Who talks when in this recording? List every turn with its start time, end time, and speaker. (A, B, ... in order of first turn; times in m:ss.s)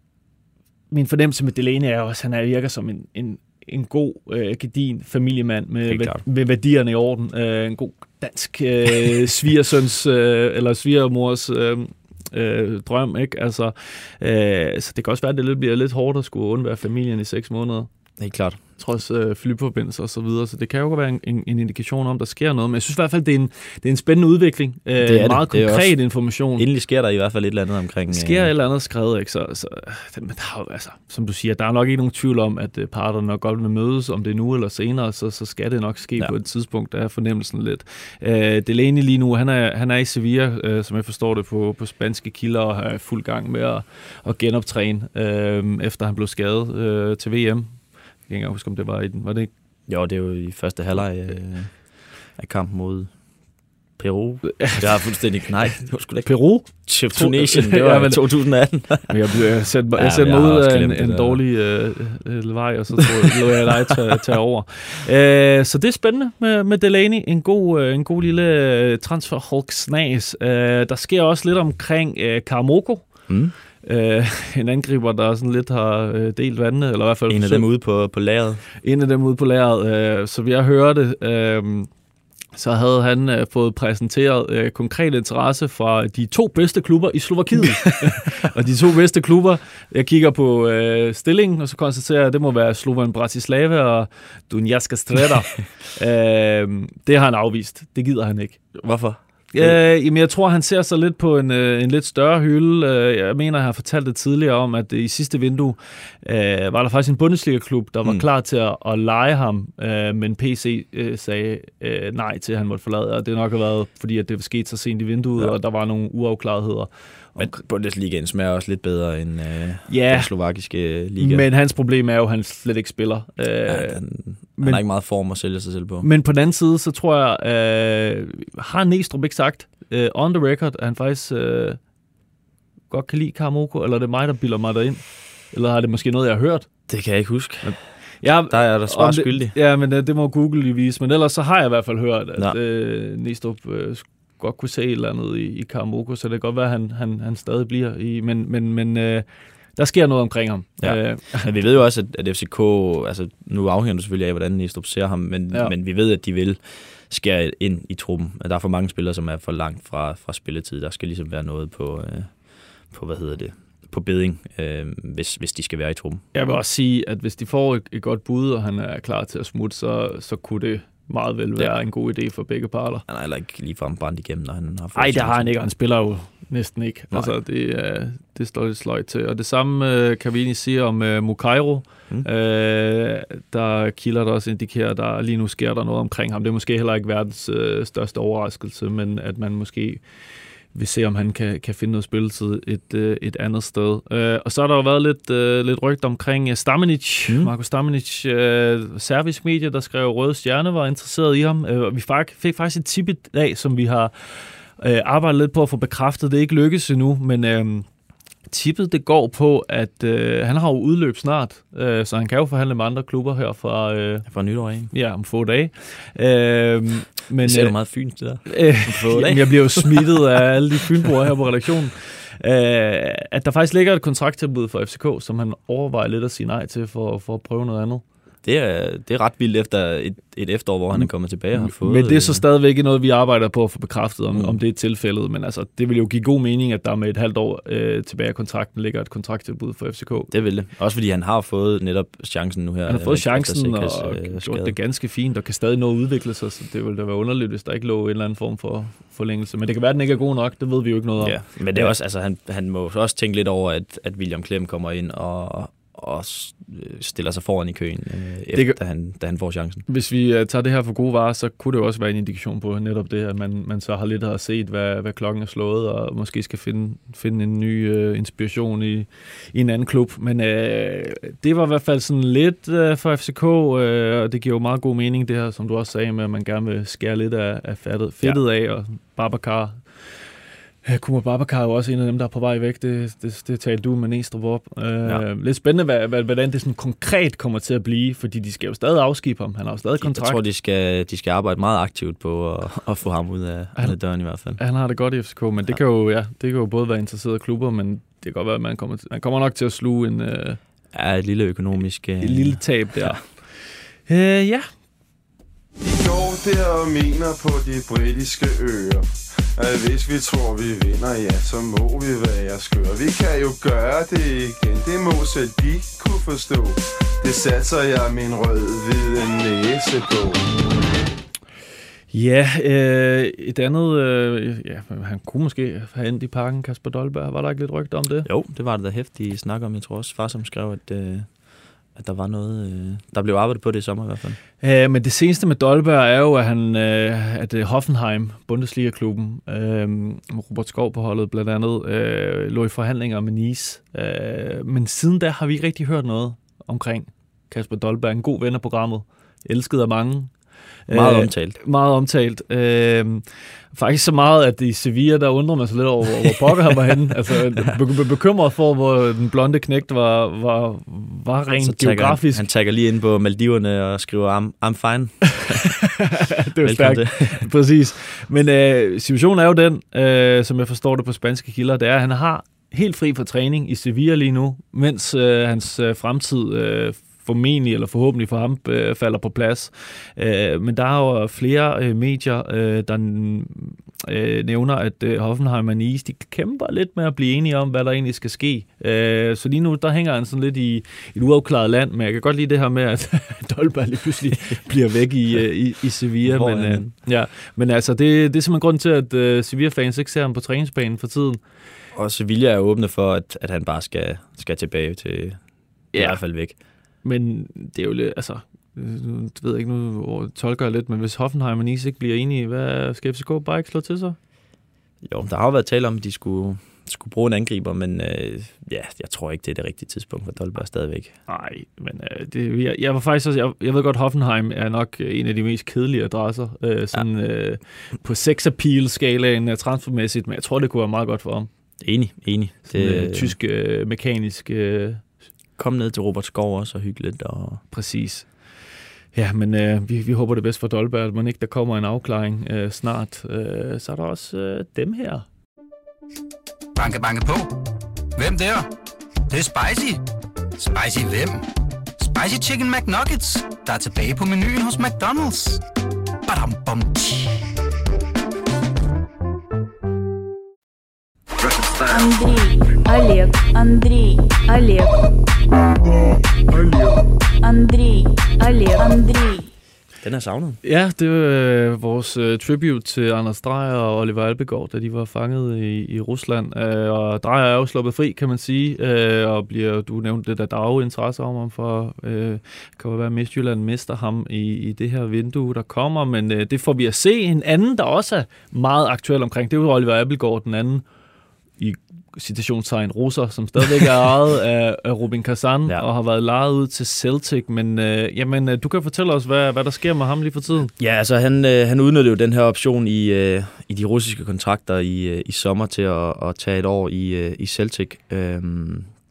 0:00.9-0:17.9 A
0:05.8-0:06.2 B
0:18.2-0:18.6 B
0:18.8-0:26.6 A
0:25.0-0:26.0 B
0:26.6-0:28.5 B
0:28.1-0:49.5 A
0:49.9-0:53.2 B
0:54.0-0:59.2 B
0:54.5-0:55.2 A
0:56.2-0:58.2 A
0:59.0-1:13.2 A
0:59.9-1:01.4 B
1:13.3-1:13.5 B
1:13.8-1:17.6 A
1:17.3-1:18.6 B
1:18.8-1:21.9 A
1:22.6-1:38.7 A
1:38.8-1:39.8 B
1:39.5-1:57.5 A
1:57.4-2:01.5 B
1:59.9-2:00.3 A
2:01.2-2:04.0 A
2:03.7-2:06.1 B
2:06.0-2:11.8 A
2:12.9-2:16.7 A
2:16.9-2:17.8 B
2:17.6-2:31.5 A
2:18.5-2:19.6 B
2:30.8-2:46.2 B
2:46.3-2:53.0 A
2:53.1-2:55.5 B
2:54.9-3:10.0 A
3:10.7-3:27.9 A
3:28.5-3:34.3 A
3:34.3-3:34.9 B
3:34.9-3:37.8 A
3:37.4-3:40.1 B
3:38.4-3:48.0 A
3:48.4-3:52.4 B
3:50.9-4:00.3 A
3:54.3-3:54.6 B
4:00.3-4:04.8 B
4:02.9-4:11.9 A
4:11.2-4:19.8 B
4:19.9-4:40.1 A
4:40.8-4:50.4 A
4:50.0-4:54.6 B
4:54.5-5:00.6 A
5:00.9-5:03.2 B
5:02.2-5:04.7 A
5:05.8-5:20.4 C
5:22.1-5:28.3 A
5:28.2-5:31.4 B
5:31.9-5:34.4 B
5:34.6-5:50.3 A
5:50.9-6:02.4 A
5:50.9-5:51.6 B
6:01.6-6:05.6 B
6:05.4-6:41.4 A
6:06.6-6:07.5 B
6:36.2-6:36.9 B
6:41.9-6:46.5 B
6:45.9-6:46.2 A
6:47.0-6:54.2 A
6:55.0-7:01.1 B
7:01.3-7:11.5 A
7:11.8-7:13.3 B
7:12.7-7:15.0 A
7:15.6-7:17.6 B
7:17.7-7:18.3 A
7:19.1-7:25.2 A
7:26.8-7:27.5 D
7:28.2-7:28.7 D
7:29.3-7:30.0 D
7:30.6-7:31.4 D
7:32.0-7:35.6 D
7:36.2-7:37.4 D
7:41.8-7:45.0 E
7:47.4-7:49.5 E
7:50.0-7:50.6 B
7:50.6-8:10.8 A
8:11.6-8:20.7 A
8:20.8-8:28.9 B